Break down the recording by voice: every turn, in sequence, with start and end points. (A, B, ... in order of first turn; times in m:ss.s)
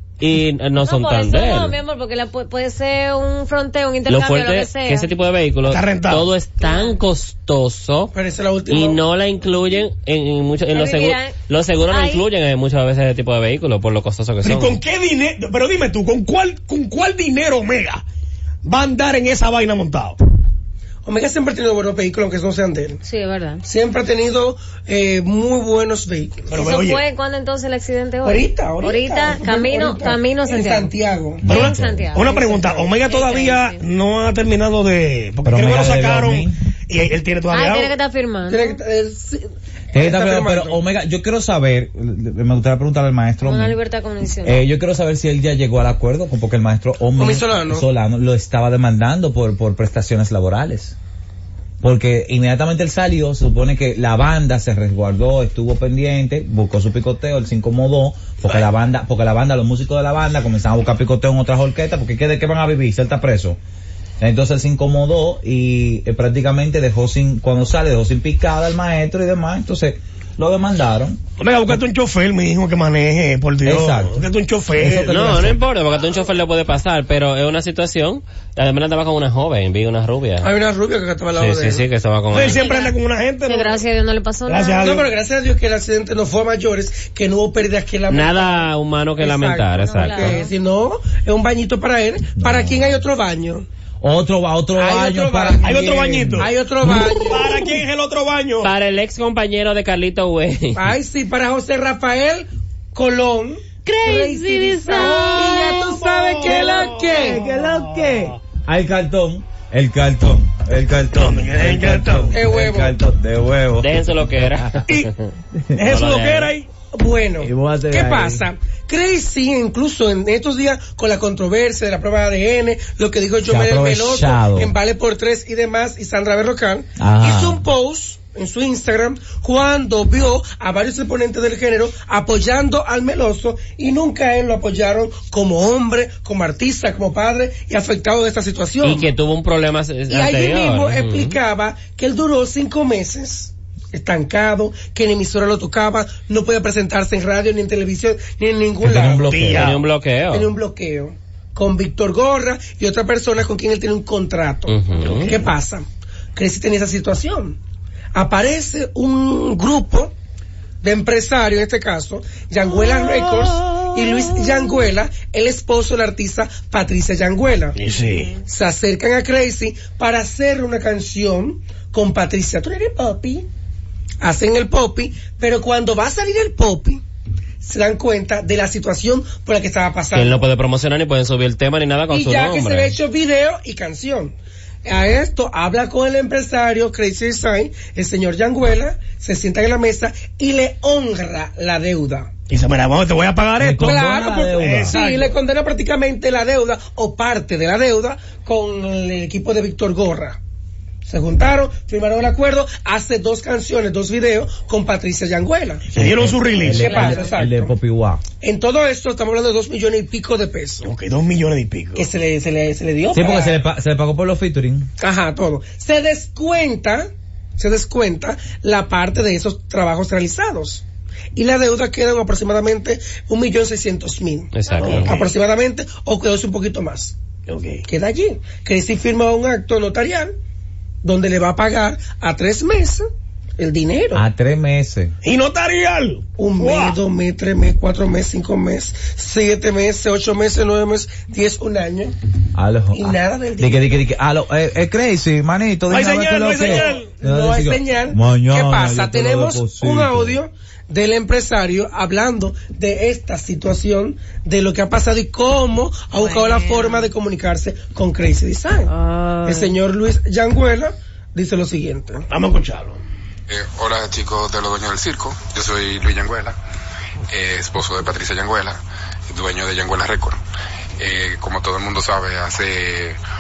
0:00.2-0:01.8 A
0:00.8-0:05.1 B
0:04.1-0:08.1 A
0:05.6-0:06.3 C
0:06.6-0:07.0 B
0:08.1-0:09.0 D
0:08.7-0:14.8 A
0:10.7-0:11.3 B
0:11.9-0:12.2 B
0:14.4-0:18.0 C
0:18.6-0:20.2 C
0:21.0-0:23.0 D
0:23.0-0:23.6 B
0:23.6-0:26.5 D
0:26.5-0:27.0 C
0:26.5-0:30.9 B
0:28.2-0:31.5 D
0:31.4-0:32.1 E
0:31.5-0:33.8 B
0:31.5-0:37.9 C
0:32.2-0:32.9 D
0:35.4-0:36.6 E
0:37.5-0:38.8 B
0:38.5-0:40.8 D
0:39.9-0:43.8 E
0:43.4-0:44.6 B
0:44.4-0:51.0 E
0:47.2-0:47.8 D
0:51.8-1:03.6 E
1:04.2-1:11.2 E
1:11.4-1:15.6 C
1:13.6-1:14.2 E
1:14.8-1:15.5 E
1:15.1-1:20.5 A
1:20.4-1:21.8 D
1:21.4-1:22.7 A
1:22.3-1:23.8 C
1:22.4-1:23.0 B
1:23.5-1:25.0 B
1:24.5-1:25.1 C
1:24.8-1:33.7 D
1:28.1-1:30.4 A
1:29.8-1:30.5 B
1:32.4-1:33.0 E
1:34.0-1:37.2 E
1:34.8-1:37.6 D
1:35.6-1:36.5 C
1:37.3-1:38.7 C
1:38.6-1:40.8 A
1:40.8-1:47.4 D
1:43.9-1:45.7 B
1:45.1-1:48.2 C
1:46.4-1:54.9 E
1:51.1-1:52.4 C
1:52.3-1:53.0 D
1:53.8-1:55.3 A
1:55.6-1:55.8 E
1:55.8-1:56.7 C
1:55.8-1:56.5 A
1:56.9-2:19.1 D
1:57.4-1:58.5 E
2:03.4-2:04.7 E
2:07.0-2:07.6 E
2:18.8-2:21.4 A
2:20.1-2:29.5 D
2:28.8-2:29.7 E
2:29.3-2:29.8 C
2:29.6-2:30.5 A
2:30.3-2:37.6 D
2:34.7-2:35.3 A
2:35.0-2:35.4 C
2:38.1-2:40.1 D
2:40.8-2:47.8 D
2:47.8-2:48.4 C
2:48.4-2:53.5 D
2:54.2-2:57.0 D
2:57.6-3:00.4 D
3:00.1-3:03.0 A
3:02.1-3:12.3 D
3:12.5-3:15.4 C
3:13.6-3:15.0 E
3:13.8-3:20.4 D
3:21.1-3:25.9 D
3:25.9-3:27.0 C
3:26.0-3:28.2 E
3:26.6-3:27.7 D
3:26.8-3:27.2 B
3:28.4-3:30.9 D
3:30.8-3:32.1 C
3:32.0-3:33.6 D
3:33.1-3:34.9 E
3:35.0-3:40.8 D
3:41.4-3:47.2 D
3:44.5-3:45.2 A
3:44.8-3:45.3 C
3:47.5-3:47.8 C
3:47.9-3:50.3 D
3:51.0-3:53.1 D
3:53.6-3:54.2 D
3:54.1-3:55.2 E
3:55.2-3:57.0 C
3:56.4-4:02.2 D
4:02.5-4:10.4 E
4:02.9-4:04.0 D
4:05.9-4:07.1 C
4:06.6-4:18.9 D
4:16.2-4:17.1 B
4:18.9-4:19.7 B
4:19.4-4:22.3 D
4:22.3-4:23.0 C
4:23.5-4:26.6 F
4:27.3-4:28.8 F
4:29.3-4:30.4 F
4:31.0-4:33.2 F